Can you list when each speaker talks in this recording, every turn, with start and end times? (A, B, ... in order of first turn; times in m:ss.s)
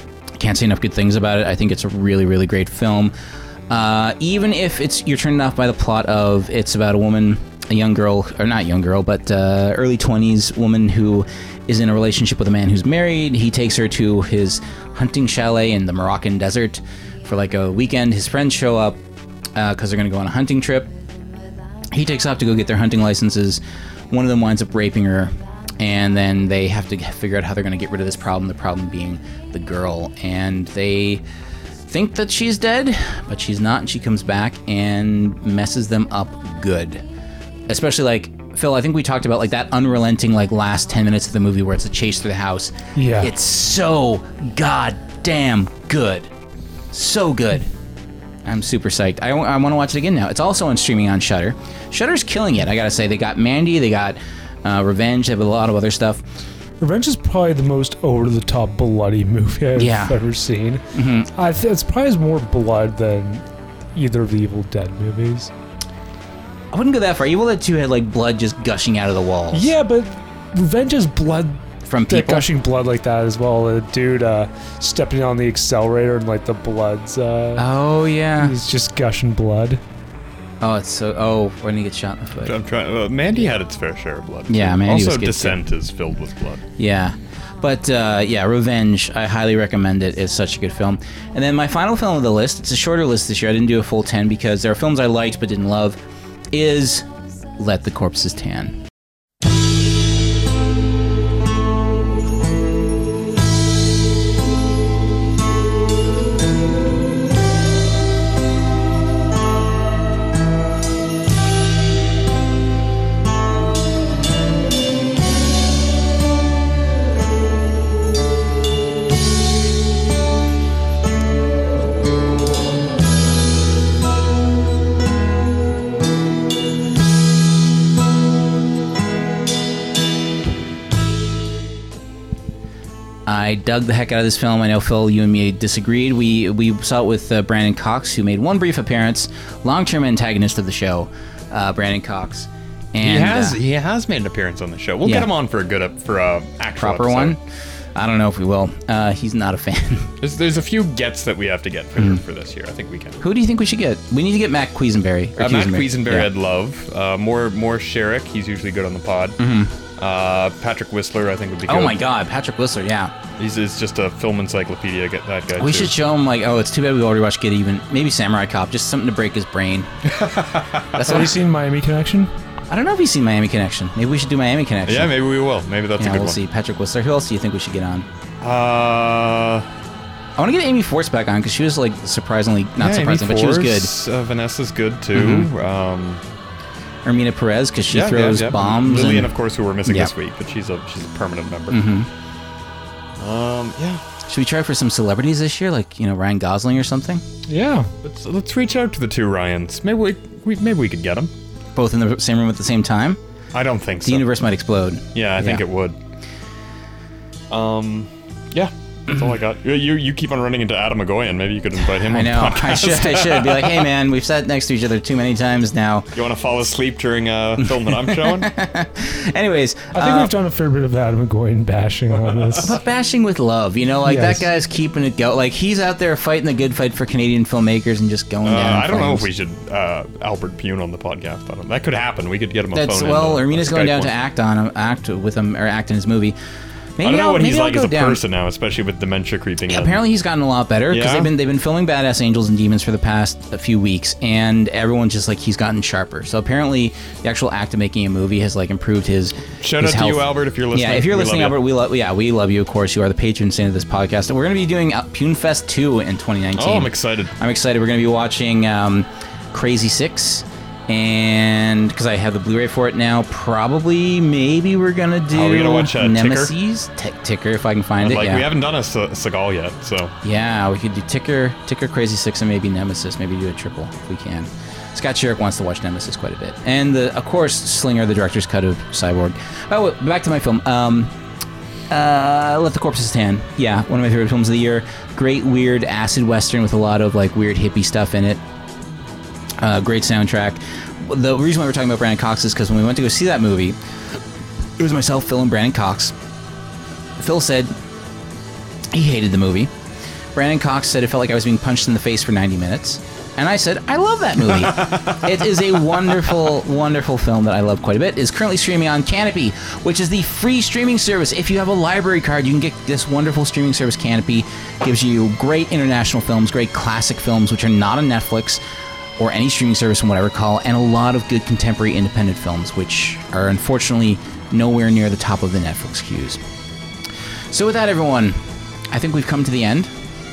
0:00.4-0:03.1 A
0:03.7-0:19.0 A
0:19.6-0:20.9 A
0:21.9-0:31.2 A
0:31.9-0:37.0 A
0:37.7-0:46.3 A
0:43.0-0:43.3 B
0:46.9-0:47.7 A
0:48.4-0:56.2 A
0:56.8-1:05.5 B
0:59.8-1:00.2 A
1:00.9-1:01.3 A
1:06.7-1:09.7 A
1:09.5-1:17.7 B
1:11.8-1:12.5 A
1:17.6-1:18.6 A
1:18.4-1:19.8 B
1:20.6-1:22.5 A
1:22.4-1:26.6 C
1:24.5-1:25.6 A
1:26.8-1:36.0 A
1:36.5-1:37.1 A
1:37.6-1:38.8 A
2:13.3-2:23.6 A
2:23.0-2:27.4 C
2:25.0-2:25.3 A
2:26.8-2:27.4 A
2:28.0-2:30.1 A
2:30.2-2:33.2 C
2:33.2-2:36.3 A
2:35.4-2:39.4 C
2:39.4-2:39.8 A
2:40.0-2:42.0 C
2:41.7-2:43.1 A
2:43.4-2:46.0 C
2:45.6-2:49.9 A
2:50.1-2:51.2 C
2:51.0-2:51.3 A
2:51.0-2:52.3 B
2:52.7-2:55.1 A
2:54.9-2:56.4 C
2:56.0-2:58.1 A
2:58.4-2:59.7 C
3:00.4-3:03.9 A
3:02.8-3:06.2 C
3:05.2-3:05.5 A
3:07.0-3:09.3 A
3:07.9-3:11.8 C
3:11.7-3:12.1 A
3:13.2-3:14.0 C
3:14.3-3:17.2 A
3:17.5-3:17.9 B
3:18.0-3:21.3 C
3:21.8-3:23.2 A
3:23.5-3:24.3 C
3:24.0-3:25.6 A
3:25.1-3:26.0 C
3:27.5-3:33.9 C
3:32.1-3:36.1 A
3:36.2-3:38.5 C
3:37.6-3:40.3 A
3:40.0-3:42.7 B
3:42.6-3:49.3 A
3:44.0-3:44.5 B
3:48.4-3:54.1 C
3:52.7-3:56.4 A
3:57.0-3:58.2 A
3:57.0-4:00.0 C
3:59.7-4:28.5 A
4:00.9-4:01.3 C
4:09.6-4:11.6 C
4:16.6-4:17.3 C
4:25.3-4:26.5 C
4:28.0-4:30.1 C
4:30.2-4:41.1 A
4:41.9-4:48.4 A
4:49.6-4:53.8 A
4:54.8-4:56.1 A
4:57.2-4:57.7 A
4:58.9-4:59.7 A
5:00.4-5:18.6 A
5:04.5-5:06.2 C
5:19.2-5:26.4 A
5:27.5-5:28.4 A
5:28.9-5:29.9 A